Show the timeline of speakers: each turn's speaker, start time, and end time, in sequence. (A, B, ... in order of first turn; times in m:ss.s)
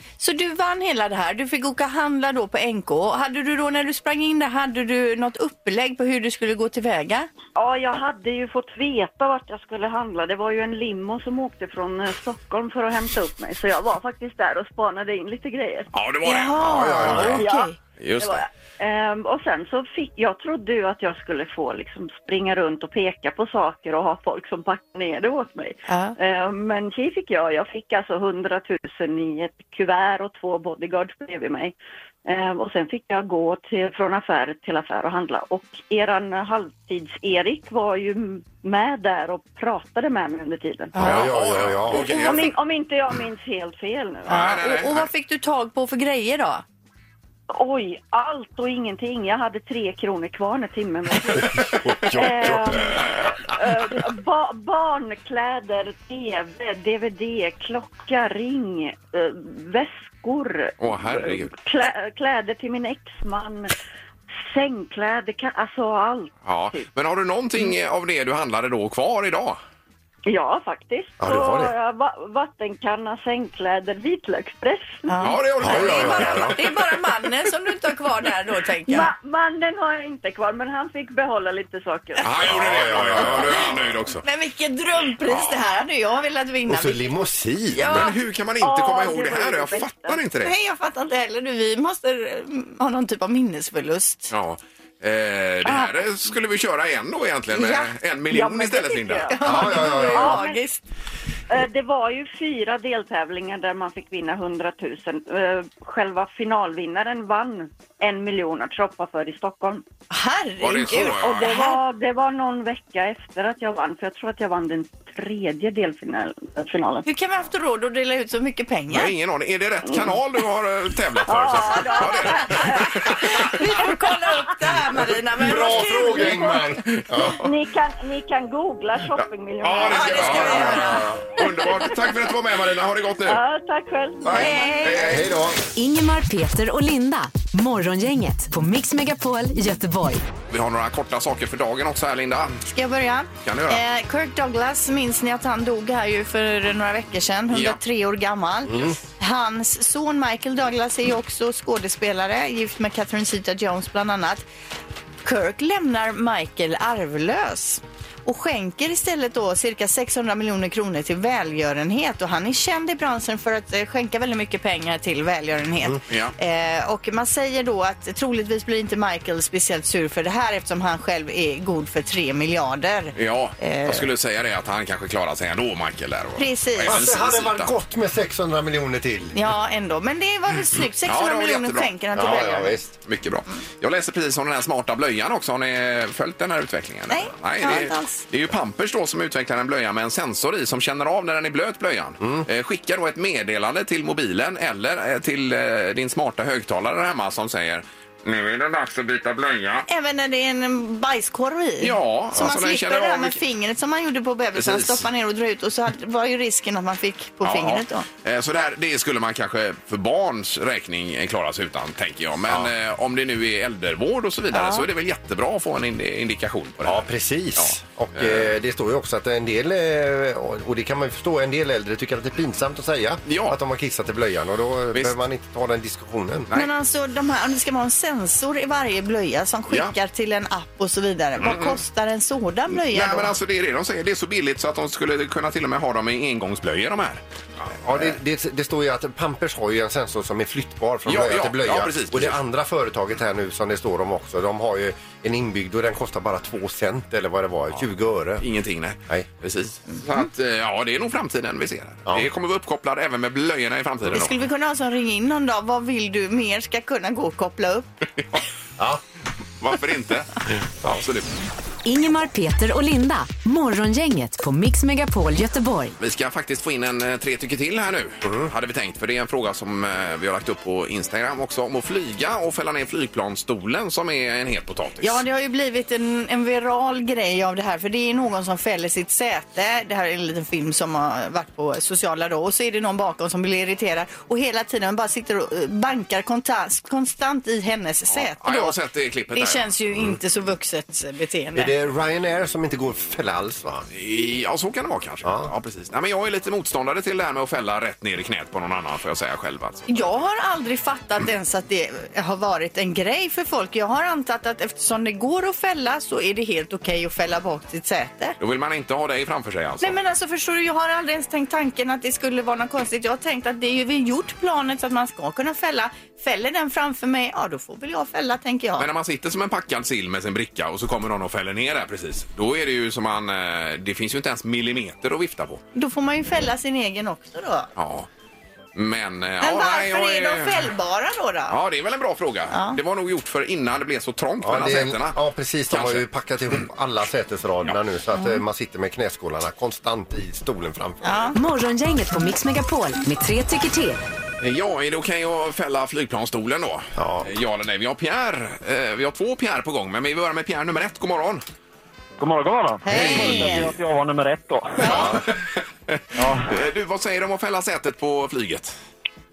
0:00.2-0:07.3 A
0:07.6-0:15.9 B
0:15.9-0:17.4 C
0:16.2-0:17.8 A
0:17.0-0:17.3 D
0:17.4-0:41.3 B
0:18.0-0:18.4 C
0:25.9-0:26.1 A
0:40.9-0:41.2 A
0:41.0-0:42.1 D
0:41.0-0:42.5 C
0:41.9-0:44.5 B
0:41.9-0:42.4 A
0:44.3-0:46.6 A
0:44.3-0:45.1 C
0:47.5-1:03.7 B
0:51.6-0:52.9 D
1:00.8-1:01.6 C
1:04.4-1:06.9 B
1:06.4-1:09.6 C
1:10.3-1:15.2 B
1:11.2-1:11.7 D
1:15.1-1:19.1 A
1:15.2-1:16.5 C
1:15.6-1:16.6 D
1:18.9-1:22.2 B
1:22.2-1:24.2 C
1:22.4-1:24.0 D
1:22.9-1:23.5 A
1:24.2-1:27.0 A
1:25.3-1:25.5 C
1:26.7-1:27.8 D
1:27.8-1:28.1 A
1:27.8-1:30.2 B
1:27.8-1:30.5 C
1:30.4-1:34.3 A
1:34.3-1:39.3 C
1:37.5-1:37.9 A
1:38.3-1:40.6 B
1:39.3-1:40.8 A
1:39.4-1:40.4 D
1:41.5-1:49.8 B
1:50.1-1:51.8 A
1:50.6-1:51.5 C
1:51.2-1:57.1 B
1:57.0-1:59.1 A
1:58.9-2:03.8 C
1:59.8-2:00.1 B
2:01.2-2:04.0 B
2:01.9-2:02.3 A
2:02.9-2:06.6 A
2:05.4-2:07.4 D
2:06.2-2:06.5 B
2:06.9-2:07.5 C
2:07.4-2:12.0 B
2:09.2-2:13.4 C
2:09.9-2:11.1 A
2:13.2-2:15.0 B
2:14.2-2:15.3 C
2:14.3-2:15.2 A
2:15.0-2:15.6 D
2:15.7-2:20.2 E
2:20.5-2:22.6 C
2:22.6-2:34.4 A
2:23.4-2:23.8 C
2:27.5-2:27.8 C
2:35.2-2:54.0 A
2:46.1-2:46.3 C
2:53.1-2:57.7 C
2:56.4-2:57.0 A
2:56.8-2:59.4 D
2:59.3-3:02.8 A
3:01.0-3:02.2 C
3:02.1-3:02.9 D
3:03.0-3:19.8 C
3:07.1-3:08.2 A
3:12.2-3:12.4 D
3:19.8-3:28.0 A
3:21.8-3:23.4 C
3:24.6-3:25.0 C
3:27.4-3:38.5 C
3:34.5-3:34.8 A
3:36.8-3:46.5 D
3:43.2-3:43.6 C
3:46.5-3:53.3 A
3:51.4-3:51.8 C
3:52.7-3:58.1 C
3:57.8-4:08.4 D
4:01.0-4:02.4 C
4:08.4-4:14.4 C
4:14.1-4:17.9 A
4:19.6-4:21.3 C
4:21.8-4:25.9 E
4:26.0-4:35.2 C
4:28.2-4:28.5 D
4:35.0-4:48.7 A
4:48.1-4:49.6 C
4:49.3-4:51.7 A
4:51.5-4:53.8 D
4:53.9-5:00.1 C
4:55.2-4:55.5 D
4:59.9-5:08.4 A
5:08.4-5:10.0 C
5:09.8-5:18.9 A
5:18.8-5:25.6 C
5:25.7-5:27.7 A
5:27.8-5:28.1 C
5:28.7-5:30.7 C
5:29.4-5:31.6 A
5:31.5-5:35.2 C
5:32.5-5:32.8 A
5:34.4-5:41.3 D
5:35.7-5:36.0 C
5:41.0-5:41.4 A
5:41.3-5:44.0 E
5:44.4-5:51.4 C
5:47.0-5:47.3 D
5:52.2-5:54.9 F
5:52.8-5:53.7 A
5:52.9-5:53.6 D
5:54.8-5:55.1 A
5:54.8-5:55.4 C
5:54.8-5:55.2 D
5:55.9-5:58.7 C
5:56.1-5:56.5 F